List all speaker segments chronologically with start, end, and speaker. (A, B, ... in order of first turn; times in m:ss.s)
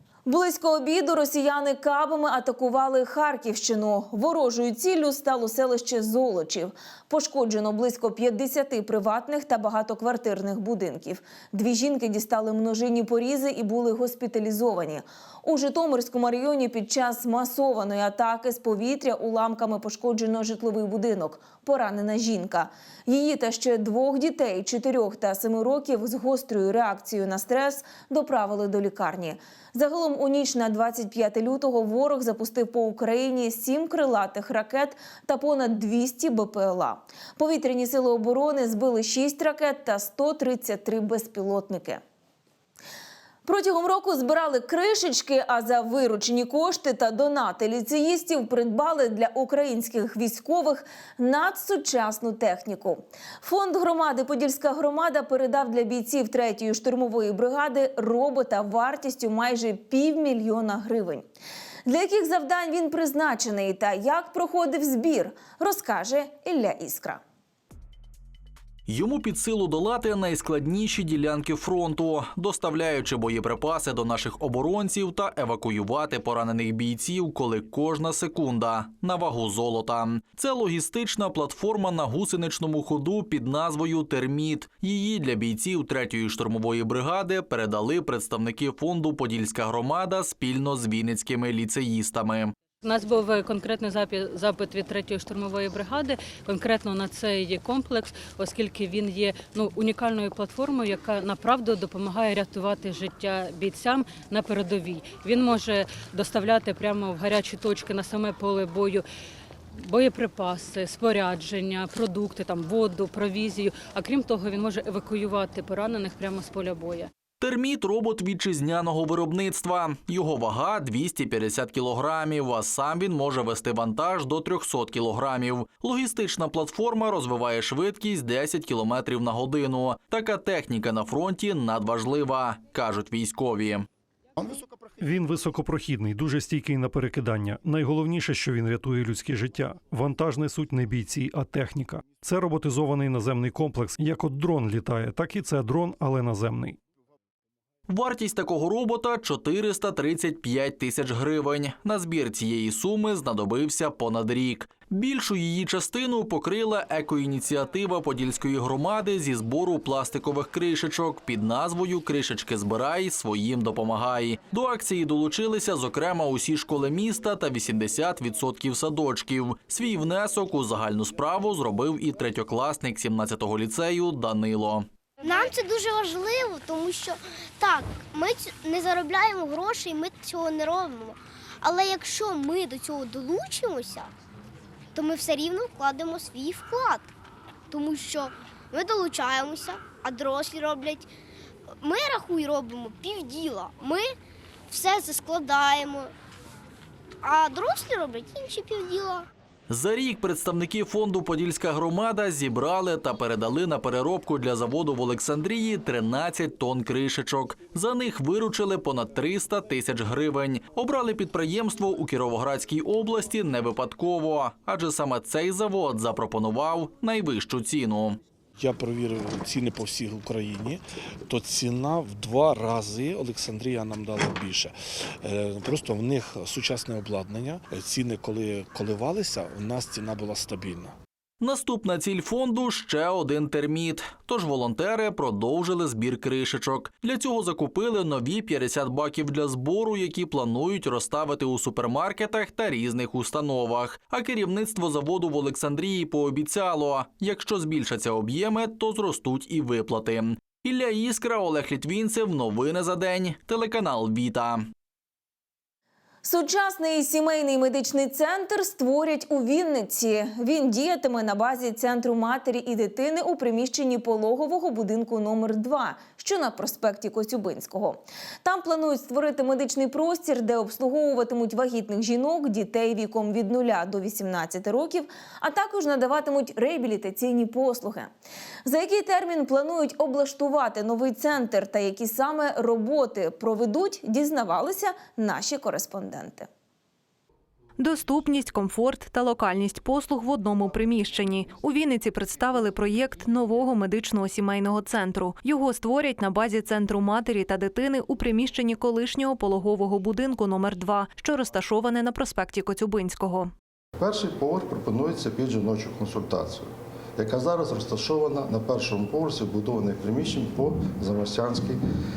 0:00.3-0:42.0 A
0:43.4-1:01.3 A
1:01.9-1:07.2 A
1:08.9-1:32.5 B
1:32.8-1:49.0 C
1:49.8-1:57.1 C
1:57.4-2:13.9 B
2:15.0-2:26.8 D
2:27.9-2:54.9 B
2:55.2-3:04.1 E
3:05.0-3:07.1 E
3:07.7-3:11.1 E
3:11.8-3:14.2 E
3:14.7-3:16.1 E
3:17.2-3:19.3 E
3:19.7-3:38.2 B
3:38.6-3:51.0 F
3:51.4-4:14.7 B
4:16.2-4:38.1 A
4:38.7-4:46.5 A
4:47.8-5:03.5 G
5:04.0-5:11.8 H